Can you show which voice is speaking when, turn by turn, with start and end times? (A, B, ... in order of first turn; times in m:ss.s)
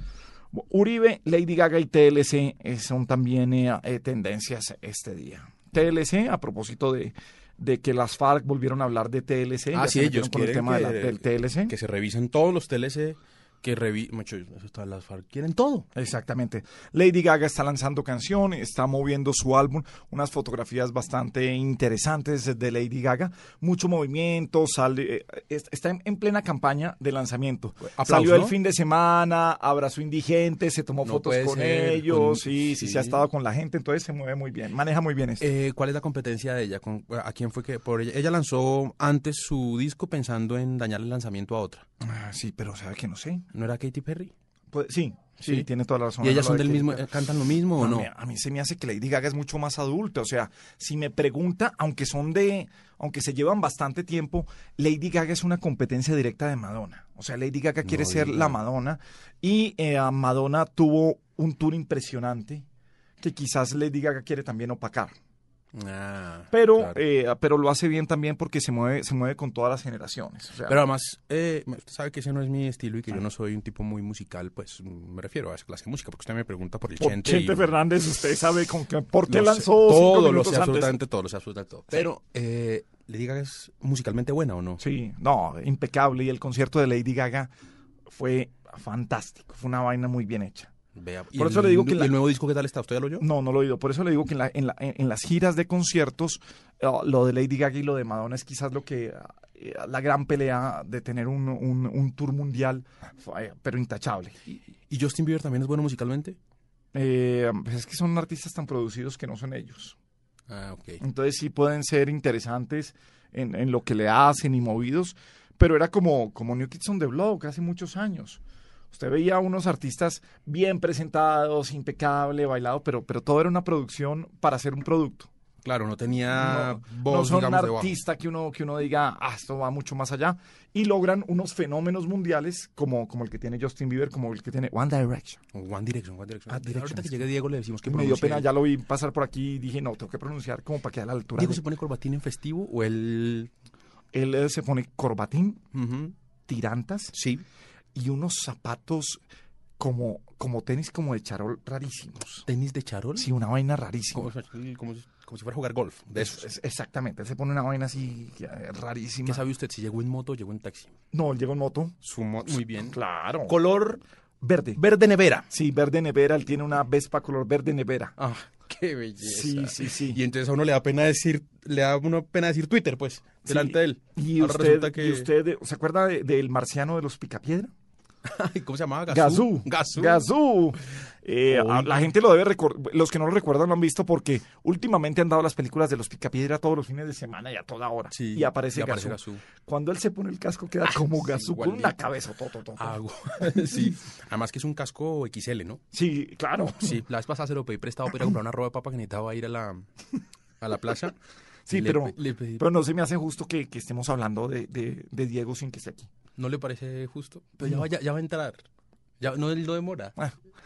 0:00.5-0:11.7 A
0:09.7-0:15.9 B
0:15.9-0:35.4 A
0:27.9-0:28.6 B
0:31.0-0:33.2 B
0:35.4-0:41.8 B
0:42.0-0:43.4 A
0:43.5-0:44.3 B
0:44.7-0:47.0 A
0:45.4-0:45.7 B
0:46.2-0:48.1 B
0:47.8-1:02.6 A
0:57.8-0:58.6 B
1:03.2-1:05.1 A
1:05.7-1:07.0 B
1:06.5-1:10.8 A
1:10.7-1:17.7 B
1:17.0-1:20.9 A
1:19.3-1:24.8 B
1:24.8-1:27.5 A
1:28.1-1:30.7 A
1:30.9-1:33.2 B
1:31.3-1:32.2 A
1:33.2-1:44.4 A
1:44.9-1:46.4 B
1:46.9-1:50.0 A
1:50.5-1:51.0 B
1:51.0-1:58.4 A
1:58.9-2:05.3 A
2:05.6-2:07.9 B
2:06.3-2:15.4 A
2:15.5-2:18.5 B
2:16.5-2:17.3 A
2:17.8-2:21.6 A
2:21.4-2:23.5 B
2:24.1-2:25.6 A
2:25.7-2:26.1 B
2:26.5-2:27.2 A
2:27.1-2:27.4 B
2:27.9-2:29.2 A
2:29.8-2:32.4 A
2:32.5-2:33.3 B
2:33.2-2:34.3 A
2:34.1-2:36.4 B
2:36.1-2:39.4 A
2:39.2-2:40.9 B
2:41.1-2:41.9 A
2:42.0-2:44.0 B
2:42.7-2:43.5 A
2:44.4-2:44.8 A
2:44.8-2:45.5 B
2:45.5-2:48.1 A
2:48.2-2:55.3 B
2:49.2-2:50.2 A
2:53.4-2:57.7 A
2:58.2-3:00.3 B
2:59.1-3:13.0 A
3:01.5-3:02.1 B
3:08.1-3:09.4 B
3:10.9-3:11.9 B
3:12.8-3:15.8 B
3:15.9-3:17.0 A
3:16.8-3:19.9 B
3:20.6-3:21.2 B
3:21.6-3:26.1 A
3:21.7-3:22.6 B
3:26.4-3:28.6 B
3:29.2-3:30.1 B